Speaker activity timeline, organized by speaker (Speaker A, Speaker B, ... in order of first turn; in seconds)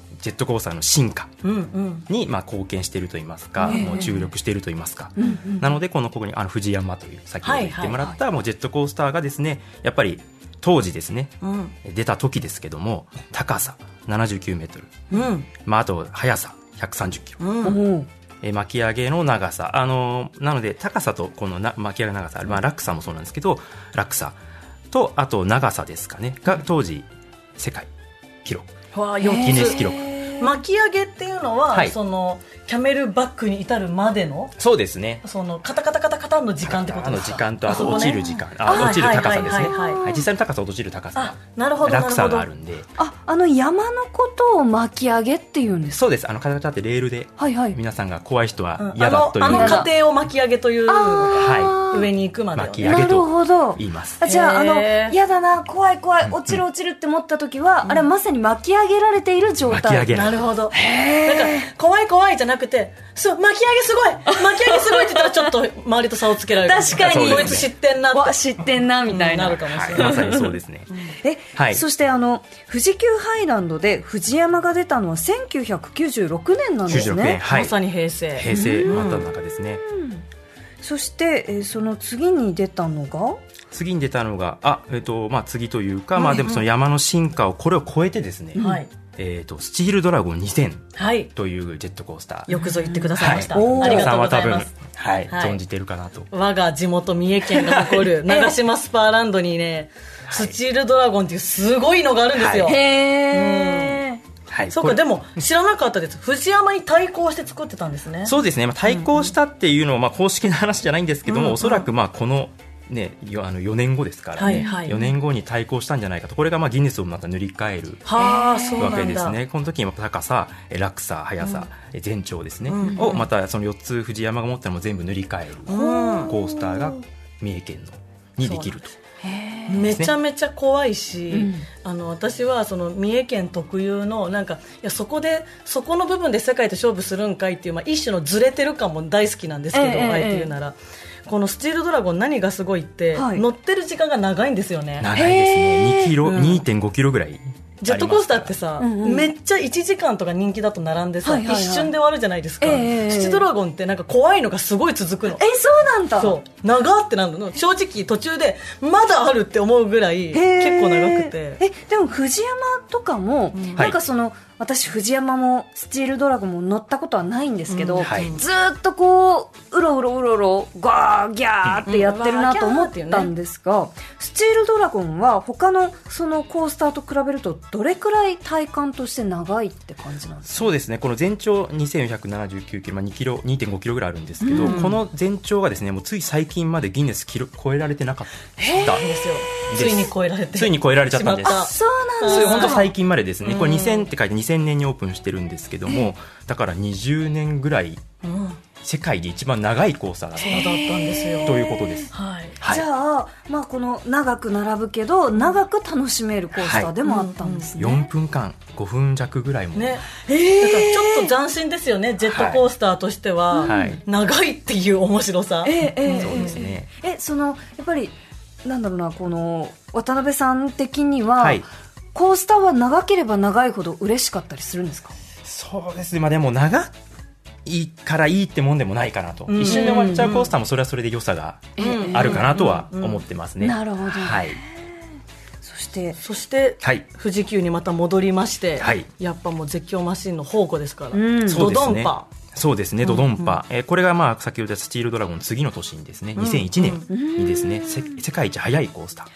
Speaker A: 0.2-1.3, 2.1-17.4, 18.4-24.4, 24.9-27.1, 27.6-27.9, 28.4-28.7, 29.4-30.1, 34.6-35.2, 36.6-42.9, 45.9-49.9, 51.3-51.8, 52.5-54.2, 56.2-56.6, 59.7-60.4, 67.0-67.7, 69.6-70.9, 71.5-71.8, 76.9-77.8, 78.3-79.8, 83.7-92.5, 93.2-96.3, 97.5-98.1, 100.3-100.5, 102.3-102.8, 104.5-105.0, 108.2-129.0, 129.8-130.1, 145.0-148.5, 168.0-168.3, 180.4-191.7, 192.2-198.0, 198.8-200.8, 201.4-202.8, 206.6-206.9, 207.8-210.0, 212.3-212.6, 213.6-214.0, 216.2-216.9, 221.4-221.7, 225.4-226.9, 227.6-234.6, 238.8-239.1, 241.5-249.3
Speaker B: 1.4-2.0, 3.6-4.1, 7.4-8.0, 11.4-11.7, 15.1-15.5, 17.4-17.8, 28.9-29.8, 30.4-34.5, 35.2-40.0, 41.1-42.5, 48.8-52.9, 54.2-55.1, 60.1-68.4, 69.1-71.0, 77.4-79.2, 86.2-86.6, 88.6-88.9, 91.0-91.3, 92.5-94.7, 95.3-95.6, 96.3-104.0, 104.7-108.3, 111.3-111.8, 114.4-115.0, 118.0-119.4, 121.4-121.7, 122.7-123.2, 125.7-126.3, 128.4-128.7, 129.7-145.1, 146.2-146.6, 147.8-155.4, 156.2-161.6, 163.5-163.8, 167.7-168.4, 171.9-173.3, 184.5-185.0, 188.8-192.8, 193.4-194.1, 198.2-198.6, 200.4-201.6, 202.1-202.6, 207.0-207.7, 209.7-216.6, 229.5-230.5, 231.8-233.2, 236.2-242.3, 243.0-243.6, 246.4-247.1
Speaker C: 3.6-4.2, 5.2-5.7, 17.6-18.1, 29.2-30.5, 37.7-40.3, 43.0-46.0, 47.4-47.8, 49.4-49.9, 50.9-52.1, 52.8-61.7, 64.3-65.5, 66.6-70.3, 71.2-77.4, 78.5-79.0, 79.8-80.2, 80.8-83.4, 88.5-88.8, 92.6-94.3, 98.3-98.5, 102.6-104.2, 114.5-115.0, 118.2-119.1, 122.9-123.2, 125.8-126.8, 129.2-129.9, 131.3-131.7, 139.7-140.5, 143.1-143.4, 145.1-146.2, 148.8-149.3, 151.2-151.9, 152.6-153.4, 155.3-156.4, 160.3-180.7, 184.4-184.9, 188.6-189.0, 191.4-192.9, 200.4-202.1, 202.6-208.1, 210.3-211.3, 213.5-213.9, 215.6-225.1, 229.6-230.4, 231.8-232.5, 233.6-234.9, 235.6-236.2, 241.1-241.7, 247.1-248.2